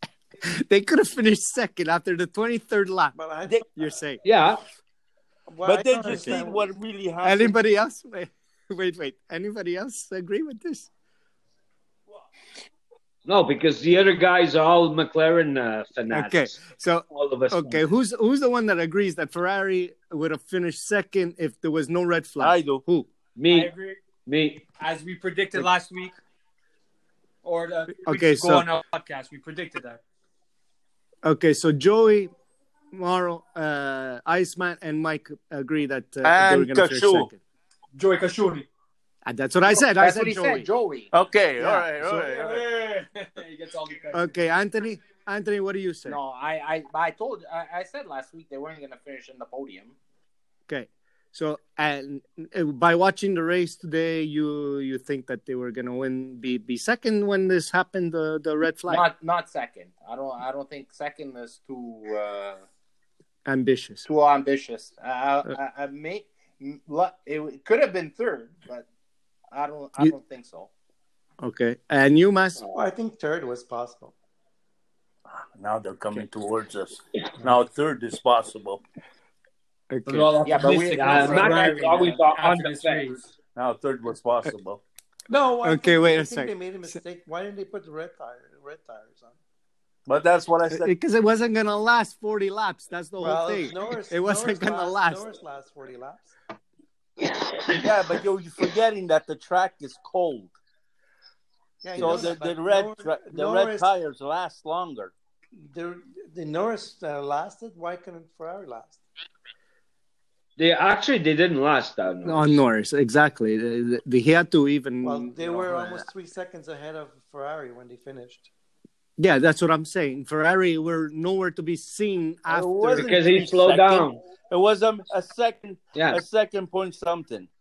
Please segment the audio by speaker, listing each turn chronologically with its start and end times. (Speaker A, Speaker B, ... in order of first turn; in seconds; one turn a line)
Speaker A: 0.4-3.1
Speaker B: 3.1-3.6
Speaker A: 3.7-4.2
Speaker C: 4.2-4.6
Speaker B: 5.5-6.7
Speaker D: 5.6-7.5
Speaker A: 6.1-6.4
Speaker A: 7.2-10.9
Speaker C: 13.2-16.6
Speaker A: 16.1-23.1
Speaker C: 17.1-17.8
Speaker D: 22.4-22.8
Speaker C: 23.4-23.7
Speaker E: 23.5-24.0
Speaker C: 24.2-24.6
Speaker E: 24.8-26.1
Speaker E: 27.4-30.0
Speaker A: 28.1-28.7
Speaker A: 31.2-32.3
Speaker A: 32.9-37.4
Speaker D: 36.2-37.3
Speaker E: 37.9-38.7
Speaker A: 39.2-40.7
Speaker F: 39.8-41.1
Speaker D: 41.1-42.7
Speaker A: 41.6-42.3
Speaker E: 42.2-44.3
Speaker A: 44.1-46.2
Speaker F: 46.0-49.9
Speaker A: 50.7-59.0
Speaker F: 58.9-62.6
Speaker A: 63.5-64.0
Speaker F: 64.0-68.8
Speaker F: 69.5-70.7
Speaker A: 71.4-72.6
Speaker B: 72.7-74.1
Speaker D: 75.5-78.8
Speaker A: 79.9-80.3
Speaker E: 80.1-83.3
Speaker C: 80.4-83.1
Speaker F: 80.4-82.2
Speaker D: 83.5-84.8
Speaker B: 85.3-89.4
Speaker A: 85.6-87.0
Speaker D: 90.0-90.9
Speaker A: 90.7-95.2
Speaker B: 93.2-96.3
Speaker C: 97.3-97.8
Speaker D: 97.7-100.5
Speaker B: 101.8-103.9
Speaker D: 102.0-105.1
Speaker A: 102.0-102.3
Speaker B: 105.7-109.0
Speaker C: 110.6-112.6
Speaker A: 112.2-116.0
Speaker B: 115.0-118.5
Speaker A: 119.2-123.4
Speaker D: 122.5-127.5
Speaker C: 122.9-124.2
Speaker C: 125.9-126.2